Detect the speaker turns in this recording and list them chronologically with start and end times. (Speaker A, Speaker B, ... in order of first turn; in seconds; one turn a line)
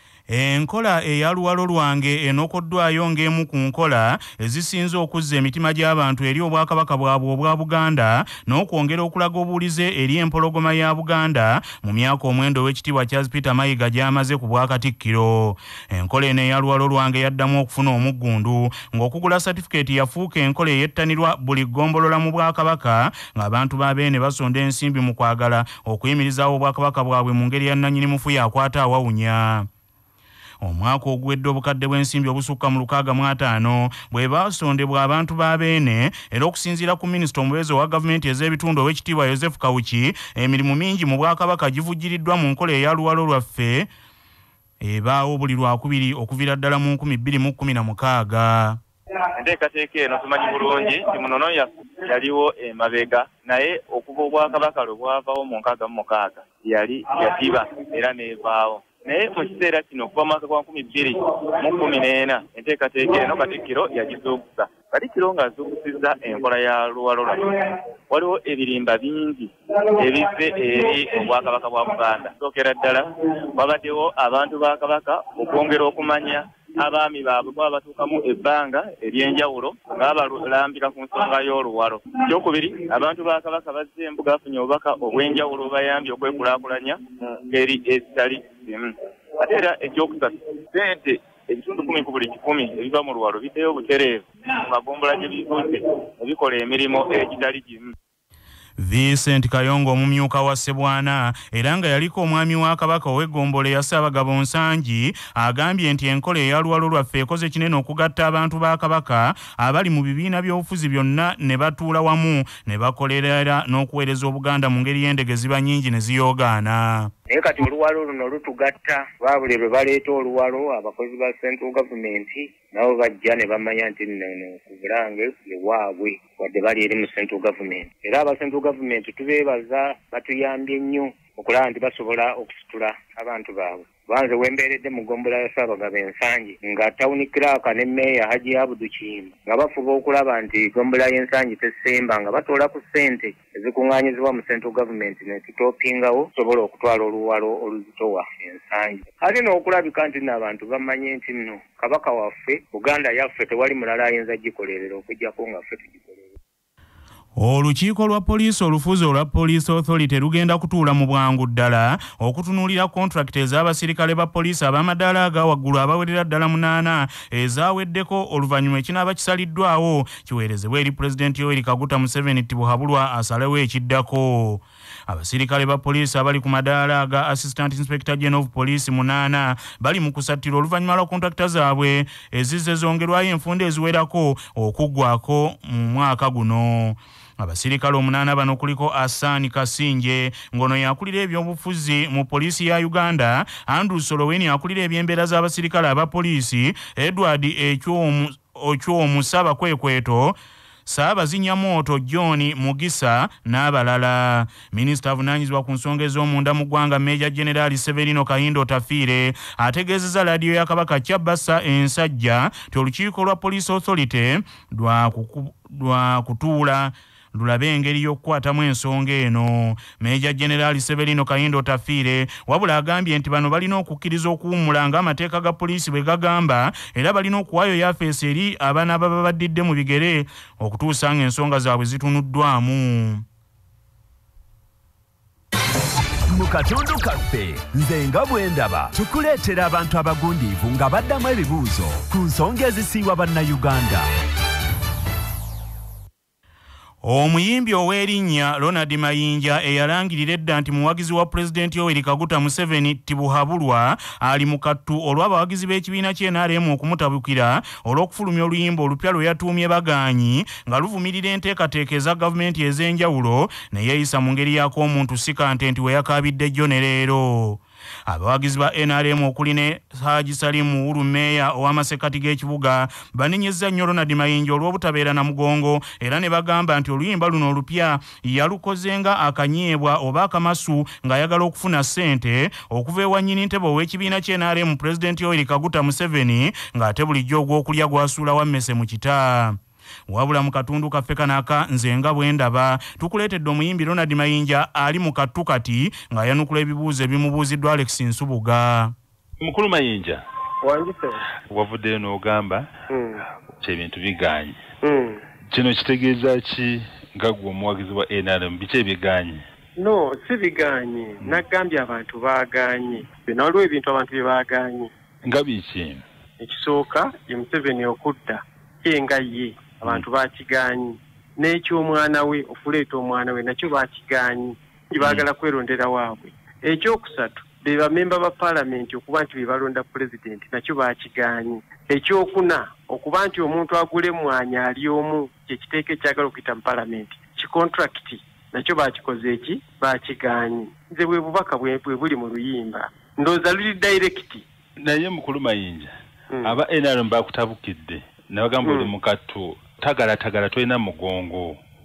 Speaker A: 0.3-29.7
Speaker A: 30.6-43.9
Speaker A: 44.8-48.8
Speaker B: 49.4-97.9
Speaker A: 98.8-117.1
Speaker C: 117.3-156.1
Speaker A: 157.4-233.2
Speaker D: 236.3-244.1
Speaker A: 247.0-289.6
Speaker A: 290.1-298.9
Speaker E: 299.4-300.2
Speaker F: 300.6-301.2
Speaker E: 301.5-302.7
Speaker F: 302.9-303.2
Speaker E: 303.6-304.6
Speaker F: 304.8-305.2
Speaker E: 305.5-309.4
Speaker F: 309.8-314.9
Speaker E: 315.2-316.0
Speaker F: 316.4-344.4
Speaker E: 325.0-325.2
Speaker E: 344.8-345.9
Speaker E: 346.4-351.6
Speaker F: 348.6-348.9